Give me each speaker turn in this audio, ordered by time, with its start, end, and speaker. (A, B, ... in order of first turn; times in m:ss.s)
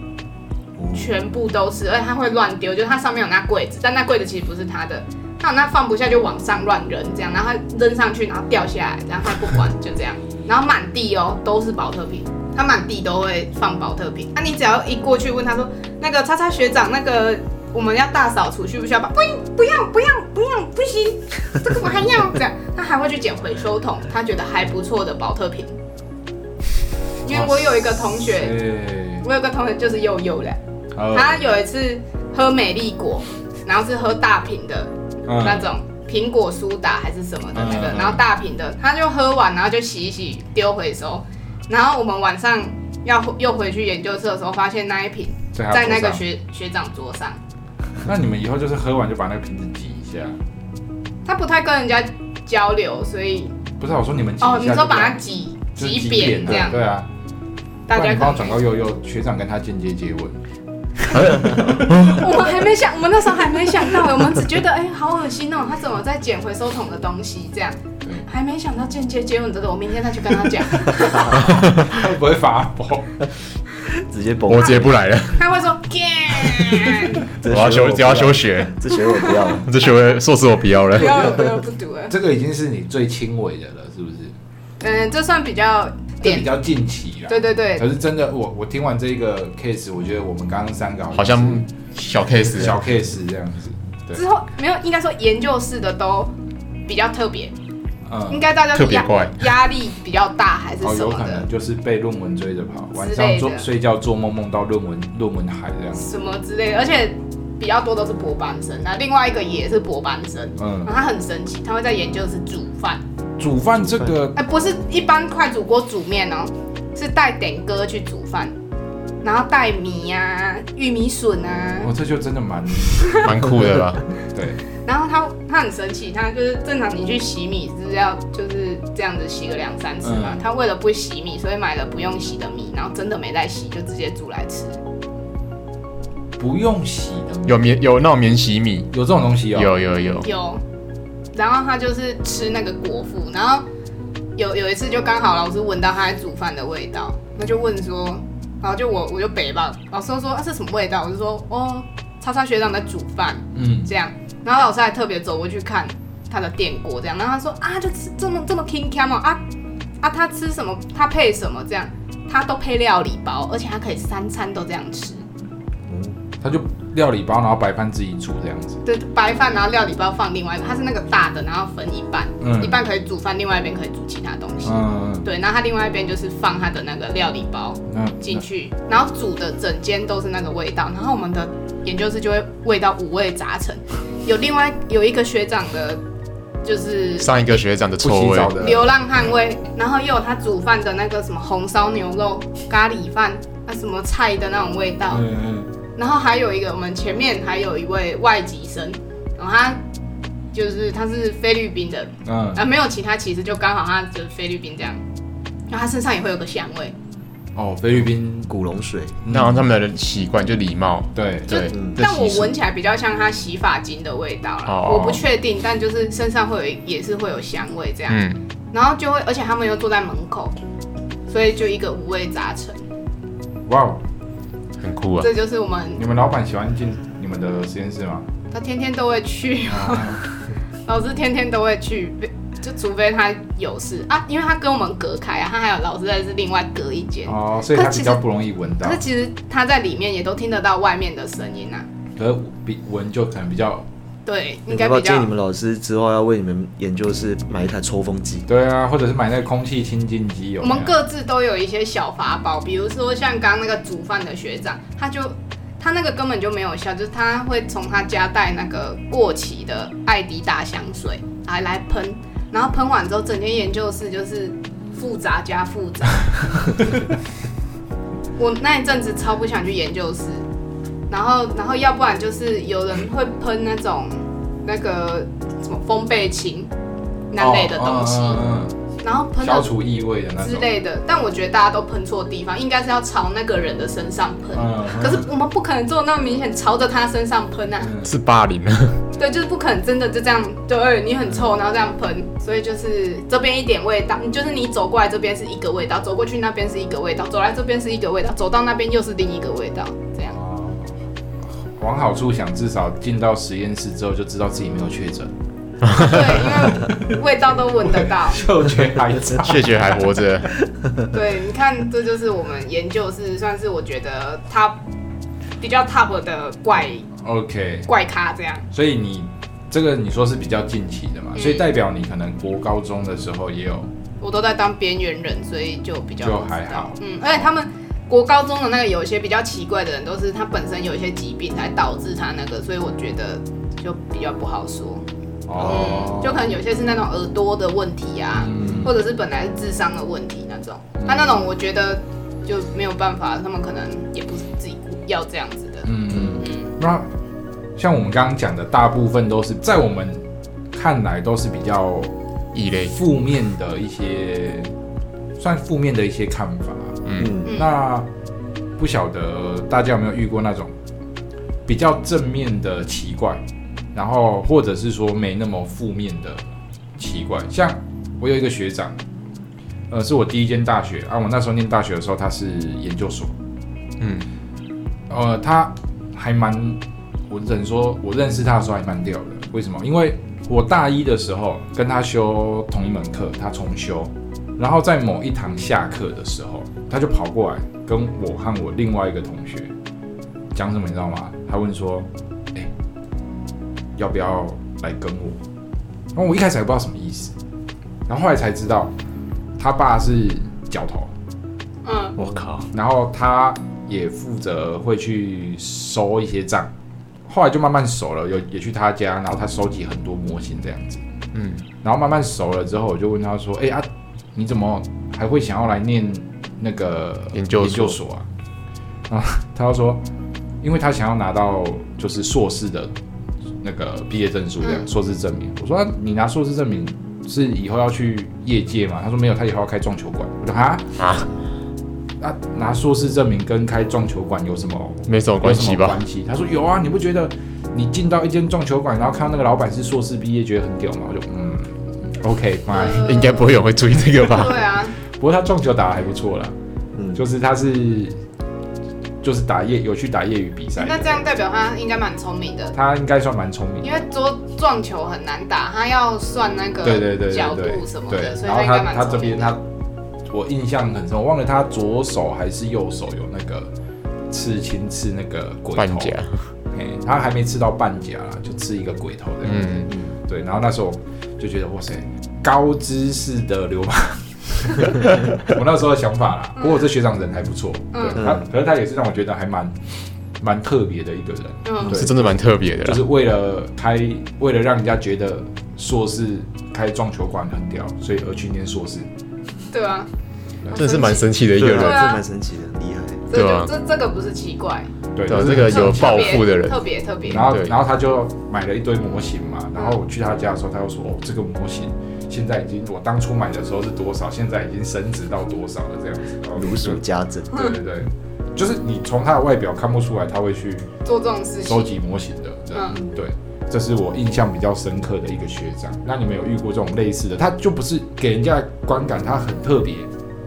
0:00.9-0:25.8 A
0:27.2-0:28.6 A
0:27.3-0:29.2 B
0:29.2-0:30.6 A
0:31.0-0:31.4 B
0:31.1-0:47.4 A
0:35.3-0:35.7 B
0:37.6-0:38.2 B
0:45.5-0:46.2 B
0:48.0-0:50.4 B
0:51.3-0:53.6 A
0:53.8-0:55.2 B
0:54.4-0:56.8 A
0:55.8-0:57.1 B
0:57.9-0:58.6 A
0:57.9-1:00.4 B
1:01.1-1:02.2 B
1:01.4-1:11.5 A
1:11.2-1:13.3 B
1:11.4-1:11.8 C
1:13.9-1:15.0 D
1:14.5-1:15.4 C
1:15.3-1:17.3 A
1:17.3-1:19.7 D
1:17.4-1:18.8 C
1:19.5-1:21.4 C
1:21.0-1:22.1 A
1:22.1-1:24.3 B
1:24.8-1:26.5 A
1:26.2-1:31.7 B
1:27.3-1:27.9 A
1:31.1-1:32.8 C
1:32.5-1:34.2 B
1:34.1-1:36.3 A
1:36.9-1:37.6 A
1:38.1-1:38.5 B
1:38.3-1:41.5 A
1:38.7-1:39.4 C
1:40.8-1:46.1 B
1:43.0-1:43.7 A
1:46.0-1:53.0 A
1:50.6-1:50.9 B
1:53.4-1:54.4 B
1:54.4-1:58.5 A
1:59.2-2:01.9 A
2:01.8-2:03.4 B
2:02.9-2:03.3 A
2:03.1-2:04.1 C
2:04.3-2:04.6 B
2:04.8-2:14.8 A
2:10.0-2:10.4 B
2:16.4-2:17.7 B
2:17.5-2:18.9 C
2:18.9-2:19.9 B
2:19.5-2:20.3 C
2:20.2-2:20.6 A
2:21.3-2:23.6 A
2:24.4-2:39.4 A
2:33.5-2:33.9 B
2:40.0-2:45.2 A
2:46.4-2:48.8 B
2:48.8-3:06.0 A
2:52.4-2:52.8 B
2:54.6-2:55.3 B
2:57.9-2:58.4 B
3:06.6-3:07.6 A
3:07.2-3:08.7 C
3:08.0-3:09.0 B
3:08.6-3:15.2 A
3:15.1-3:15.7 B
3:16.0-3:19.8 A
3:20.5-3:25.0 A
3:22.3-3:22.6 B
3:25.7-3:27.0 A
3:27.6-3:28.5 B
3:28.5-3:29.2 D
3:29.2-3:29.7 B
3:29.3-3:32.6 C
3:31.2-3:31.7 B
3:31.5-3:38.2 A
3:31.7-3:32.0 D
3:34.7-3:35.2 C
3:38.1-3:38.4 C
3:38.7-3:40.6 A
3:41.3-3:42.8 A
3:43.7-3:44.0 B
3:44.8-3:45.3 C
3:45.2-3:46.0 A
3:46.0-3:48.3 B
3:48.5-3:50.2 A
3:49.7-3:50.2 B
3:50.9-3:58.2 A
3:57.3-3:59.0 B
3:58.8-4:01.9 A
4:02.2-4:03.9 B
4:04.3-4:05.3 A
4:04.7-4:08.5 D
4:08.5-4:10.9 B
4:10.6-4:26.4 A
4:28.4-4:30.4 A
4:31.1-4:36.7 A
4:37.3-4:38.4 A
4:37.4-4:38.7 B
4:39.0-4:39.7 A
4:39.4-4:40.7 B
4:40.4-4:47.9 A
4:44.6-4:45.3 B
4:47.8-4:48.1 B
4:48.0-4:49.0 C
4:49.2-5:00.4 A
5:00.3-5:01.0 B
5:01.5-5:05.3 B
5:05.9-5:06.2 C
5:05.9-5:08.4 A
5:06.2-5:07.2 B
5:07.7-5:10.0 B
5:09.3-5:10.5 C
5:11.1-5:14.8 A
5:15.6-5:17.1 A
5:17.2-5:17.9 B
5:17.9-5:18.7 A
5:18.7-5:23.9 B
5:21.4-5:21.7 A
5:24.2-5:35.0 A
5:26.2-5:27.5 B
5:35.5-5:36.5 B
5:35.6-5:36.1 D
5:35.6-5:46.7 A
5:38.4-5:39.0 B
5:41.0-5:41.4 B
5:45.8-5:47.1 B
5:47.8-5:50.2 B
5:50.7-5:52.1 B
5:52.5-5:53.0 C
5:52.8-5:54.7 B
5:55.4-5:58.1 B
5:57.1-5:57.3 C
5:57.2-5:57.5 D
5:58.8-6:00.7 B
6:01.7-6:03.4 B
6:03.9-6:06.4 B
6:07.0-6:09.0 B
6:09.9-6:13.3 B
6:14.0-6:14.3 C
6:15.1-6:29.7 B
6:30.5-6:32.7 B
6:34.0-6:35.4 B
6:36.2-6:37.3 B
6:38.1-6:38.9 B
6:39.6-6:41.1 B
6:41.8-6:42.2 A
6:42.2-6:42.6 C
6:42.3-6:42.6 D
6:42.7-6:46.7 B
6:47.3-6:51.0 B
6:51.3-6:51.6 C
6:51.8-6:58.2 B
6:57.3-6:58.0 C
6:59.1-7:00.0 B
7:00.6-7:02.9 B
7:03.6-7:11.0 B
7:04.6-7:04.9 A
7:11.0-7:11.3 C
7:12.2-7:23.4 B
7:15.1-7:16.0 C
7:22.7-7:23.5 A
7:23.0-7:24.6 C
7:24.2-7:25.0 A
7:25.2-7:26.5 B
7:27.0-7:27.2 D
7:27.2-7:28.2 B
7:29.2-7:31.2 B
7:30.8-7:32.7 A
7:32.7-7:34.0 B
7:33.8-7:39.6 A
7:36.8-7:39.6 B
7:40.3-7:43.7 B
7:44.3-7:46.2 B
7:45.8-7:46.4 C
7:46.7-7:59.8 B
7:49.4-7:49.9 C
7:57.9-7:58.2 A
7:58.2-7:58.4 D
8:00.4-8:09.1 B
8:01.6-8:02.0 A
8:01.9-8:03.0 C
8:09.7-8:10.1 A
8:10.7-8:12.2 A
8:10.7-8:12.1 C
8:11.6-8:13.3 D
8:13.3-8:14.9 A
8:13.3-8:13.7 C
8:15.2-8:16.5 B
8:15.3-8:17.7 C
8:15.7-8:17.6 A
8:17.3-8:30.9 B
8:26.6-8:27.7 D
8:31.0-8:31.9 A
8:31.6-8:40.1 B
8:32.7-8:33.0 A